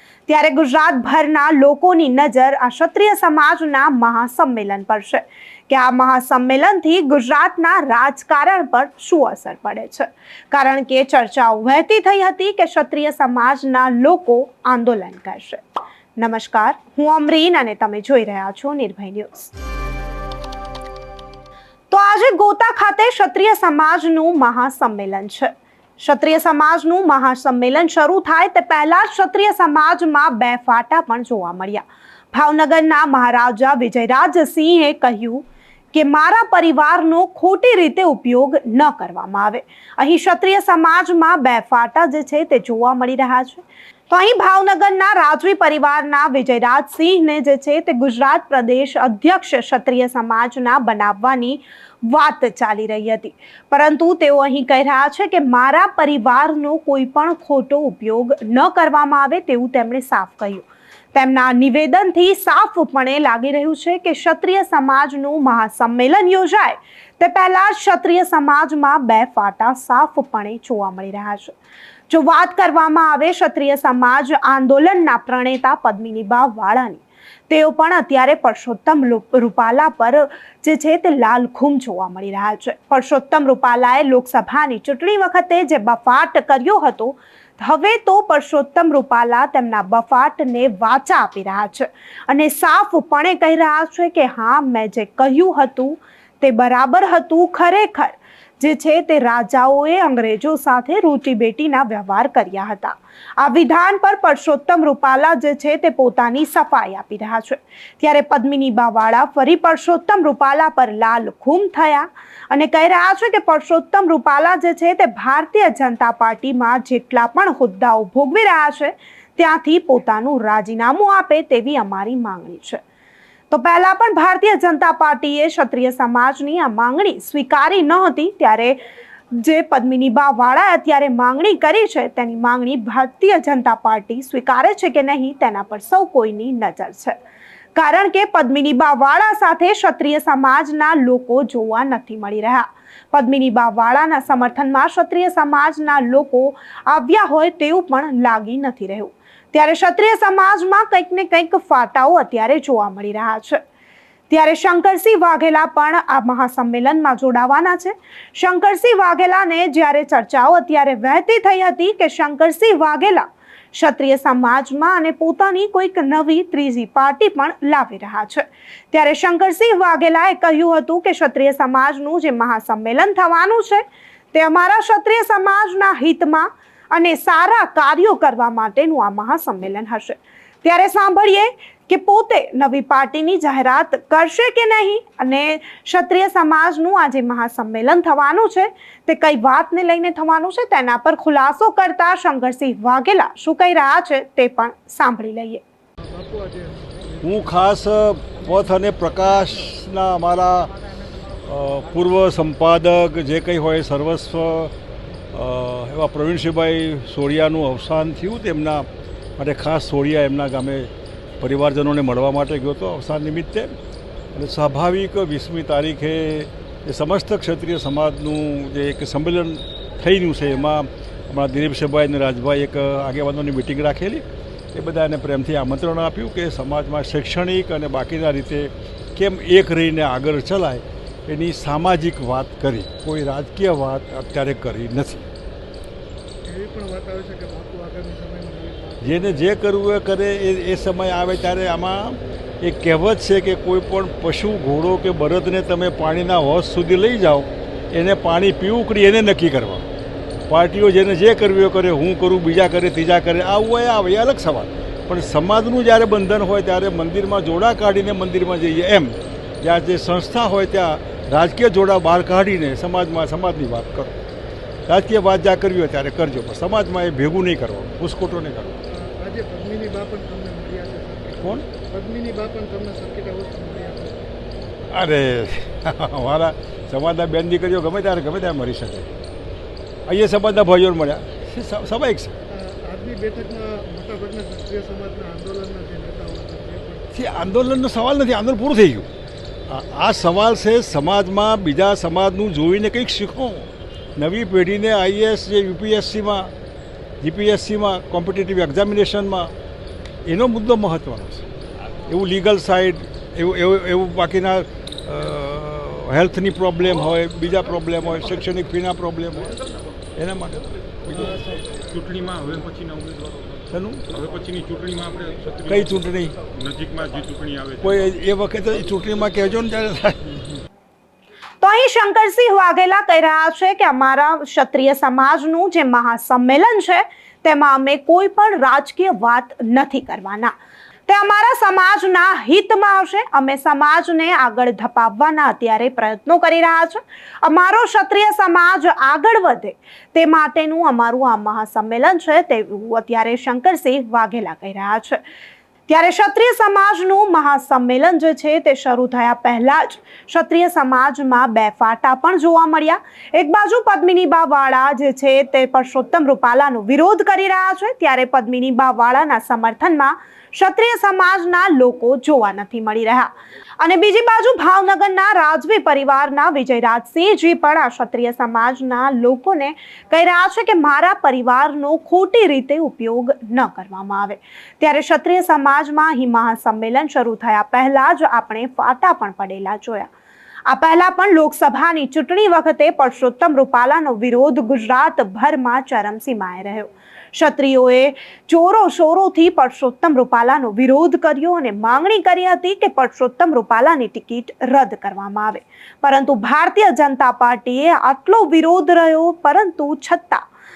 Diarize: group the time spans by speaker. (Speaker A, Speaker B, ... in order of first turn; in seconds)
Speaker A: 0.3-15.6, 16.2-19.5, 21.9-71.5, 72.1-122.8, 123.5-128.8, 129.3-137.2, 137.8-153.6, 154.3-195.6, 321.6-330.5, 331.1-345.2, 345.9-380.1, 380.7-400.4
Speaker B: 196.0-197.7, 236.5-239.5, 268.9-274.2, 282.5-287.1, 311.3-311.6
Speaker C: 197.2-200.7, 201.4-204.7, 205.3-208.9, 209.4-210.9, 211.4-213.7, 214.3-235.2, 239.0-249.9, 250.5-264.1, 264.9-268.8, 274.9-279.1, 280.1-282.4, 287.1-289.1, 289.7-296.5, 297.2-299.5, 300.3-301.5, 302.1-309.6, 310.2-311.4, 313.7-314.0, 315.7-316.4, 317.8-320.5
Speaker D: 311.9-313.5, 314.1-318.1